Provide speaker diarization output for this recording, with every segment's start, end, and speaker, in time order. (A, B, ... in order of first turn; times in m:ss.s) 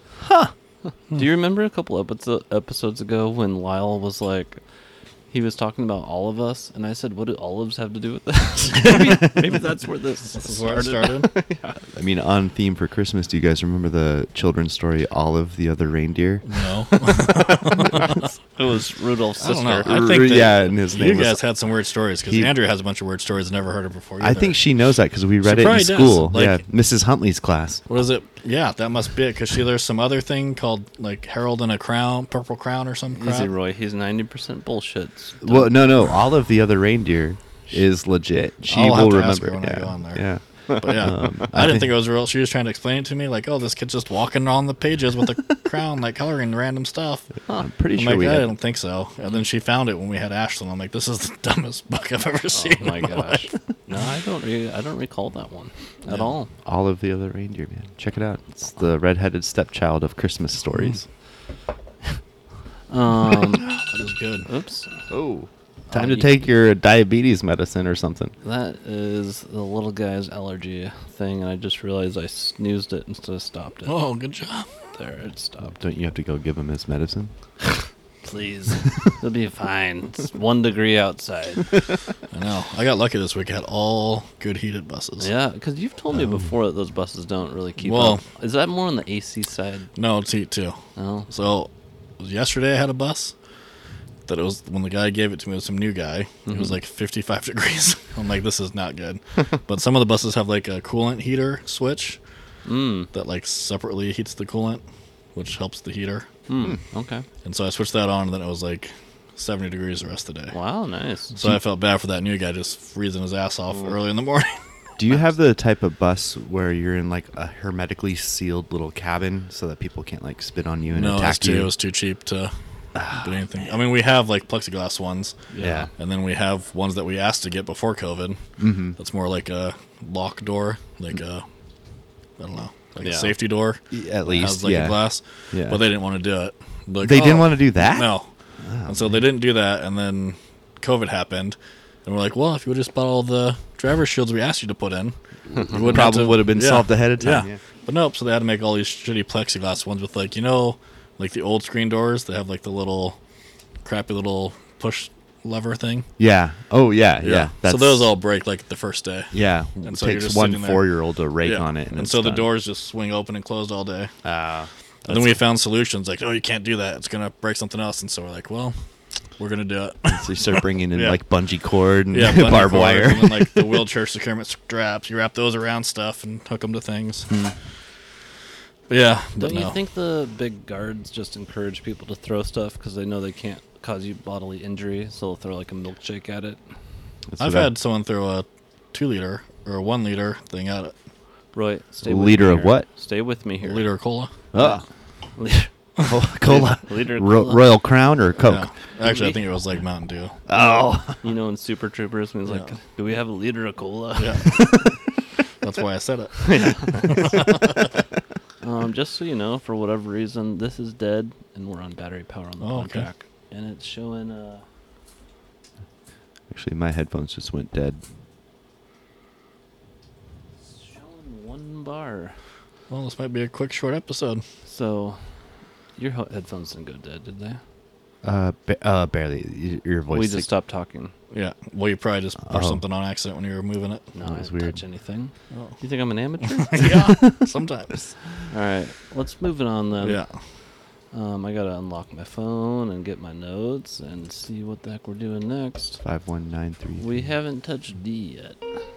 0:00.2-0:00.5 A
0:01.1-0:04.6 B
0:05.3-0:11.8 B
0:10.4-0:11.3 C
0:11.9-0:16.4 A
0:16.4-0:18.2 C
0:18.6-0:20.7 B
0:19.4-0:24.6 C
0:19.8-0:21.4 A
0:22.3-0:22.5 A
0:24.2-0:27.8 A
0:25.4-0:26.6 C
0:27.9-0:33.5 C
0:33.1-0:35.7 B
0:35.4-0:41.9 A
0:38.7-0:47.3 C
0:47.5-0:48.5 A
0:47.9-0:53.5 C
0:52.5-0:56.5 B
0:56.6-1:01.1 A
1:02.9-1:03.7 B
1:03.7-1:04.5 C
1:04.5-1:05.1 B
1:05.1-1:08.4 A
1:05.9-1:06.4 B
1:08.4-1:14.0 B
1:13.9-1:14.7 C
1:14.9-1:15.8 B
1:15.7-1:17.3 A
1:18.2-1:21.7 B
1:22.3-1:25.3 C
1:25.2-1:29.9 B
1:27.8-1:28.2 C
1:30.0-1:33.3 C
1:31.0-1:31.3 B
1:34.3-1:42.2 C
1:36.5-1:36.8 B
1:42.6-1:43.1 B
1:43.1-1:44.8 C
1:45.4-1:46.3 C
1:46.5-1:47.2 B
1:47.4-1:50.6 C
1:50.5-1:51.4 B
1:51.3-1:54.6 C
1:55.0-2:01.7 A
2:00.9-2:02.5 C
2:02.9-2:03.7 A
2:03.0-2:08.4 C
2:05.5-2:05.9 B
2:05.6-2:05.9 A
2:08.6-2:09.0 A
2:09.0-2:11.4 C
2:12.4-2:18.3 C
2:13.0-2:13.3 B
2:13.9-2:15.8 A
2:17.0-2:19.2 A
2:18.9-2:33.2 C
2:25.7-2:27.6 A
2:33.8-2:36.1 C
2:36.2-2:38.1 A
2:37.2-2:40.8 C
2:39.3-2:42.5 A
2:41.4-2:44.1 C
2:44.2-2:45.4 A
2:45.1-2:48.8 C
2:49.4-2:51.2 C
2:50.1-2:53.8 A
2:52.1-2:57.3 C
2:57.3-2:57.5 A
2:58.9-2:59.8 C
2:59.4-3:06.6 B
3:07.3-3:07.7 A
3:07.4-3:10.9 C
3:11.5-3:13.8 B
3:12.0-3:12.9 A
3:13.6-3:14.3 C
3:14.5-3:14.8 A
3:14.5-3:14.8 B
3:15.4-3:15.7 B
3:16.0-3:18.7 A
3:16.4-3:17.7 B
3:18.4-3:20.4 C
3:19.0-3:19.4 B
3:20.5-3:21.2 A
3:20.6-3:24.9 B
3:22.5-3:22.7 C
3:24.2-3:24.8 C
3:25.6-3:27.8 C
3:26.4-3:27.4 B
3:28.6-3:34.6 B
3:32.6-3:33.1 C
3:36.5-3:38.0 A
3:40.7-3:42.4 B
3:42.9-3:44.4 C
3:44.6-3:45.2 B
3:46.0-3:47.6 B
3:48.2-3:50.5 A
3:50.1-3:51.1 B
3:51.3-3:54.1 C
3:52.5-3:52.8 A
3:54.1-3:57.0 B
3:54.2-3:54.8 A
3:55.5-3:55.8 C
3:56.6-3:58.2 C
3:58.5-4:00.2 B
4:00.0-4:00.3 C
4:01.1-4:06.0 B
4:06.0-4:07.1 A
4:07.0-4:08.6 B